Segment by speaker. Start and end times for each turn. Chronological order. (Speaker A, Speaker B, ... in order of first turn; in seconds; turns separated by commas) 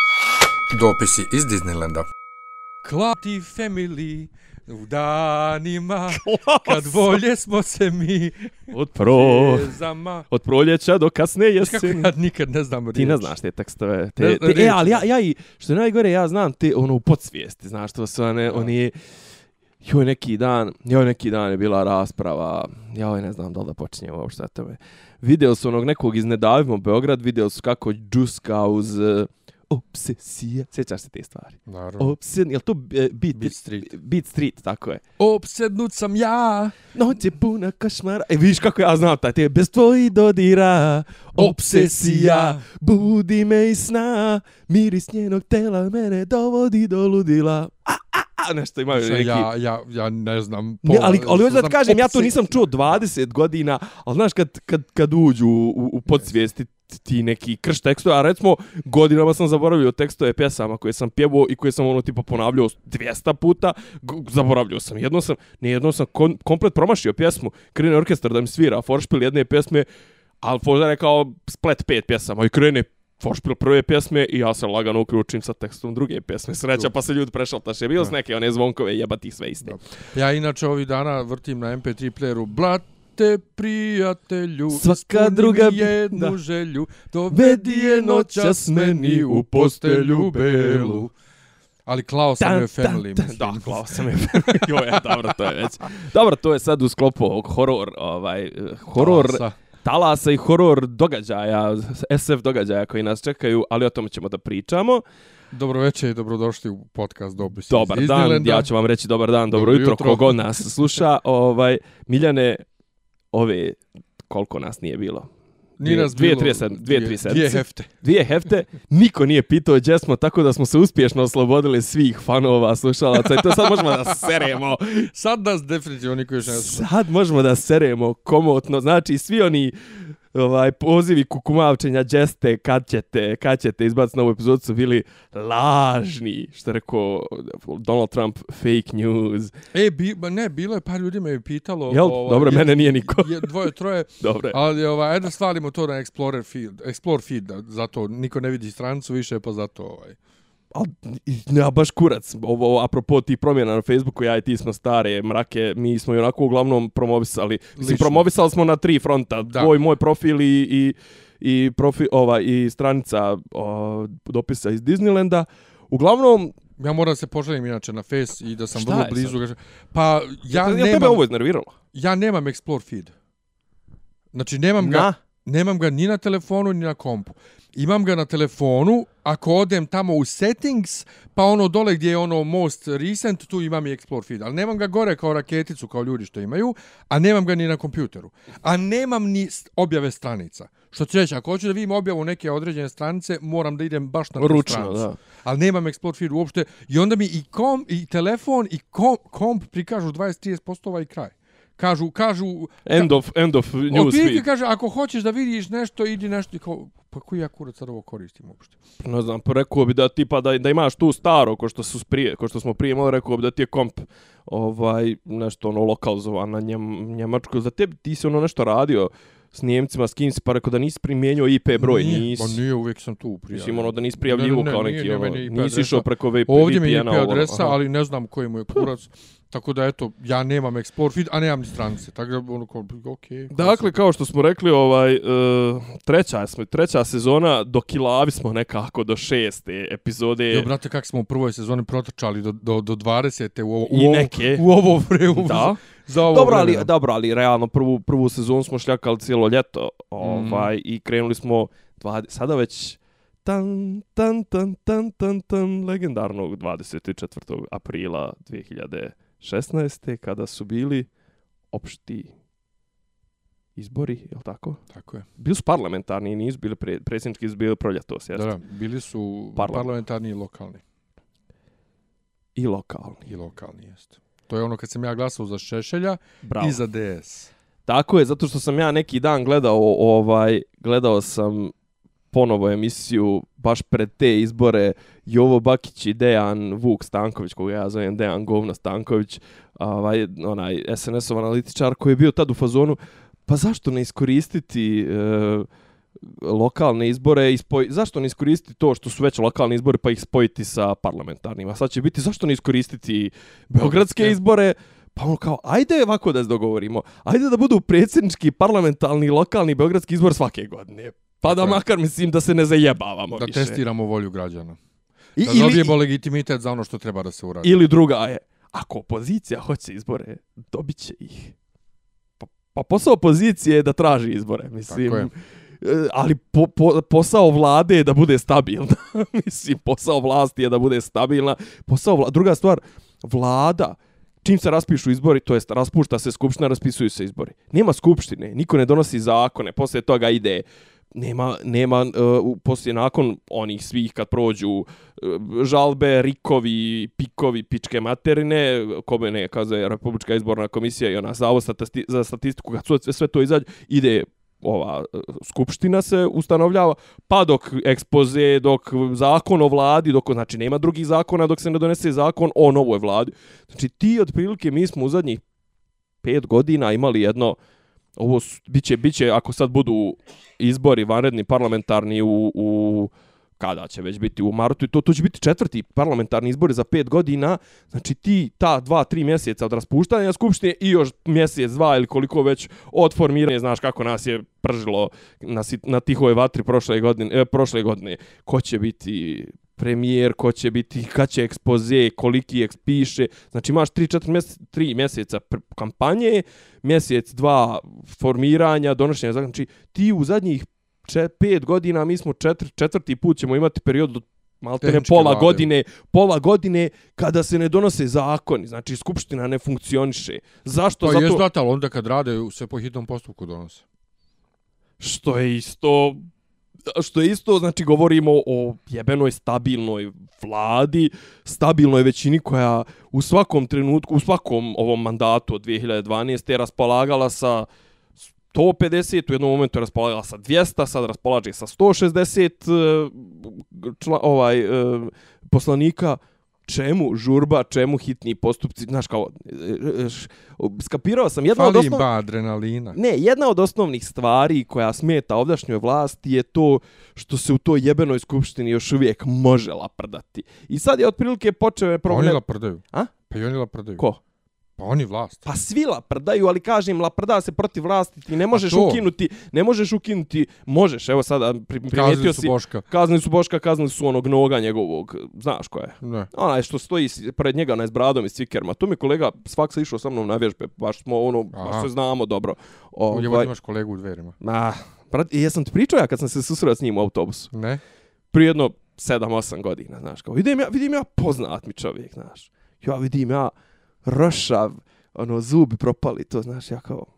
Speaker A: 0.7-2.1, Speaker A: 2.8-10.3, Speaker B: 6.1-7.2, Speaker B: 8.7-9.7, Speaker B: 10.3-12.1, Speaker A: 11.6-13.3, Speaker B: 12.9-19.0, Speaker A: 14.2-15.0, Speaker B: 19.8-35.0, Speaker A: 31.7-32.1, Speaker A: 33.3-33.9, Speaker A: 35.2-36.8, Speaker B: 36.9-49.5, Speaker A: 41.4-42.6, Speaker A: 48.9-52.5, Speaker B: 50.8-69.9, Speaker B: 70.4-79.8, Speaker A: 79.6-91.1, Speaker B: 84.7-86.3, Speaker B: 87.3-91.1, Speaker A: 91.9-95.5, Speaker B: 92.4-105.0, Speaker A: 98.9-99.5, Speaker A: 105.5-108.7, Speaker B: 107.7-112.6, Speaker A: 109.5-110.6, Speaker B: 113.3-115.3, Speaker A: 115.8-117.9, Speaker B: 115.8-125.1, Speaker A: 123.3-124.2, Speaker A: 125.1-126.9, Speaker B: 126.4-139.5, Speaker A: 139.7-150.2, Speaker B: 141.9-143.5, Speaker B: 144.2-144.6, Speaker B: 150.7-166.6, Speaker A: 157.8-158.2, Speaker A: 159.4-159.7, Speaker A: 166.8-171.2, Speaker B: 168.7-169.4, Speaker B: 170.5-171.7, Speaker A: 171.9-173.1, Speaker A: 174.3-203.1, Speaker B: 174.8-175.2, Speaker B: 194.4-195.2, Speaker B: 202.8-204.4, Speaker A: 203.9-208.8, Speaker B: 209.0-222.6, Speaker A: 221.8-233.9, Speaker B: 223.5-227.8, Speaker B: 233.5-240.7, Speaker A: 240.5-246.9, Speaker B: 243.9-244.6, Speaker B: 245.3-261.1, Speaker A: 250.2-250.7, Speaker B: 261.7-262.3, Speaker B: 263.8-264.8, Speaker A: 264.9-265.2, Speaker B: 265.4-268.5, Speaker A: 268.3-270.8, Speaker B: 269.6-269.9, Speaker B: 272.6-273.3, Speaker A: 273.3-277.5, Speaker B: 276.4-276.8, Speaker B: 277.9-281.7, Speaker B: 282.3-295.7, Speaker B: 296.2-313.8, Speaker A: 303.7-304.4, Speaker A: 311.4-311.8, Speaker A: 313.3-314.8, Speaker B: 315.4-315.9, Speaker A: 315.4-317.8, Speaker B: 317.6-321.5, Speaker B: 322.4-365.4, Speaker A: 324.9-325.3, Speaker B: 366.2-367.6, Speaker B: 368.2-411.4, Speaker A: 404.8-405.7, Speaker A: 411.0-413.8, Speaker B: 415.0-416.2, Speaker B: 416.9-427.7, Speaker B: 428.5-442.1, Speaker A: 441.5-443.0, Speaker B: 442.9-452.4, Speaker A: 452.1-454.0, Speaker A: 454.8-455.4, Speaker B: 455.4-473.5, Speaker A: 458.5-459.0, Speaker A: 461.9-462.8, Speaker A: 466.0-466.3, Speaker A: 471.5-471.9, Speaker A: 473.1-474.4, Speaker B: 474.4-477.5, Speaker A: 477.5-477.8, Speaker B: 478.3-483.5, Speaker B: 484.0-487.1